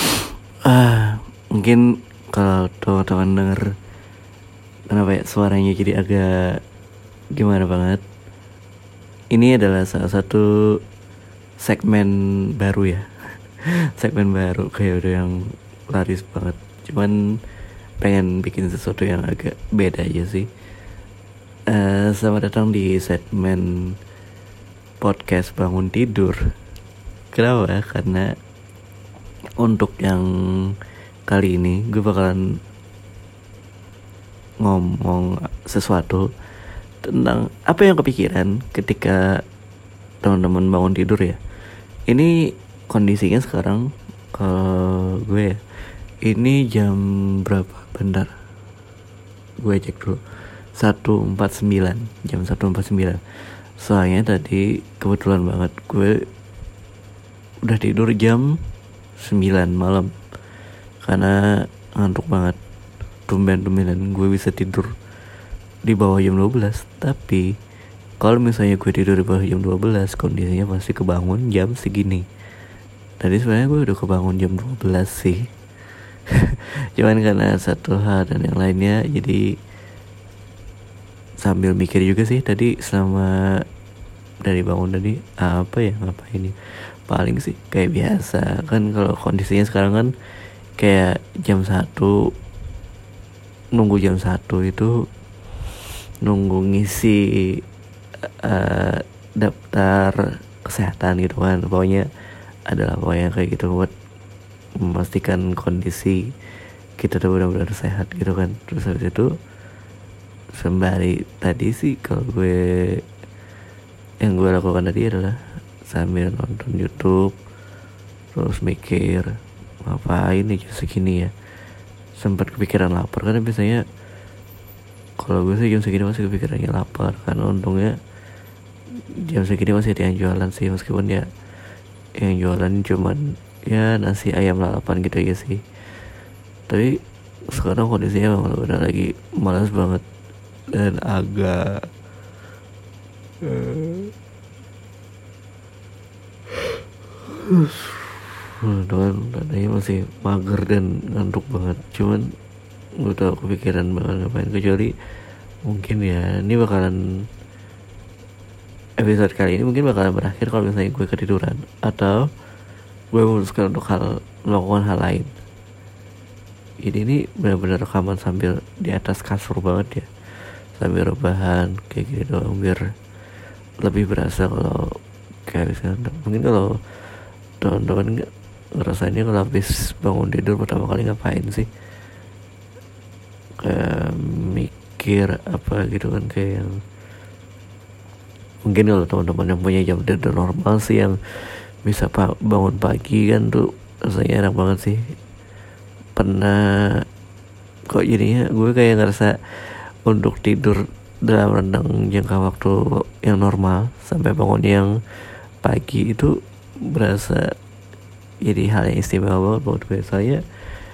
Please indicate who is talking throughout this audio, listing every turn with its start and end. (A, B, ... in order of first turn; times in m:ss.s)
0:00.6-0:03.7 A
0:04.9-0:06.6 A
0:07.4-0:08.0 A
0:09.3-0:10.4 A
0:11.6-0:13.1 A
0:13.7-0:15.3 A
0:15.9-0:17.2 A
0:18.0-0:20.5 A
0:21.7-0:23.7 A
0:25.0-0:26.4 A
0:27.3-0:28.3 A
0:29.6-0:30.3 A
0:31.3-0:32.4 A
0:34.6-0:36.3 A
0:37.0-0:39.4 A
0:40.2-0:41.4 A
0:42.9-0:45.6 A
0:46.2-0:48.3 A
0:49.6-0:50.2 A
0:50.8-0:53.2 A
0:53.8-0:56.2 A
0:57.6-0:58.5 A
0:59.2-1:00.1 A
1:01.0-1:01.3 A
1:02.0-1:02.6 A
1:03.3-1:04.9 A
1:05.8-1:07.5 A
1:08.2-1:12.2 A
1:13.2-1:15.4 A
1:16.3-1:19.4 A
1:21.4-1:23.3 A
1:24.4-1:26.5 A
1:27.1-1:30.1 A
1:30.8-1:32.1 A
1:33.7-1:34.9 A
1:36.2-1:37.5 A
1:38.4-1:42.0 A
1:42.7-1:43.9 A
1:44.8-1:46.2 A
1:47.0-1:49.3 A
1:50.6-1:53.0 A
1:54.2-1:57.4 A
1:58.3-1:59.3 A
1:59.8-2:01.3 A
2:02.2-2:03.8 A
2:05.2-2:07.9 A
2:09.2-2:11.2 A
2:12.2-2:15.6 A
2:17.5-2:20.0 A
2:20.7-2:21.7 A
2:23.4-2:24.1 A
2:27.3-2:32.2 A
2:33.0-2:34.9 A
2:35.6-2:37.0 A
2:39.0-2:42.2 A
2:43.1-2:45.3 A
2:46.8-2:50.1 A
2:50.8-2:52.8 A
2:53.8-2:54.9 A
2:55.5-2:56.7 A
2:57.6-2:58.2 A
2:58.8-3:01.7 A
3:03.6-3:06.7 A
3:08.6-3:15.0 A
3:16.2-3:17.0 A
3:17.9-3:24.9 A
3:25.6-3:26.3 A
3:26.9-3:27.4 A
3:28.4-3:30.4 A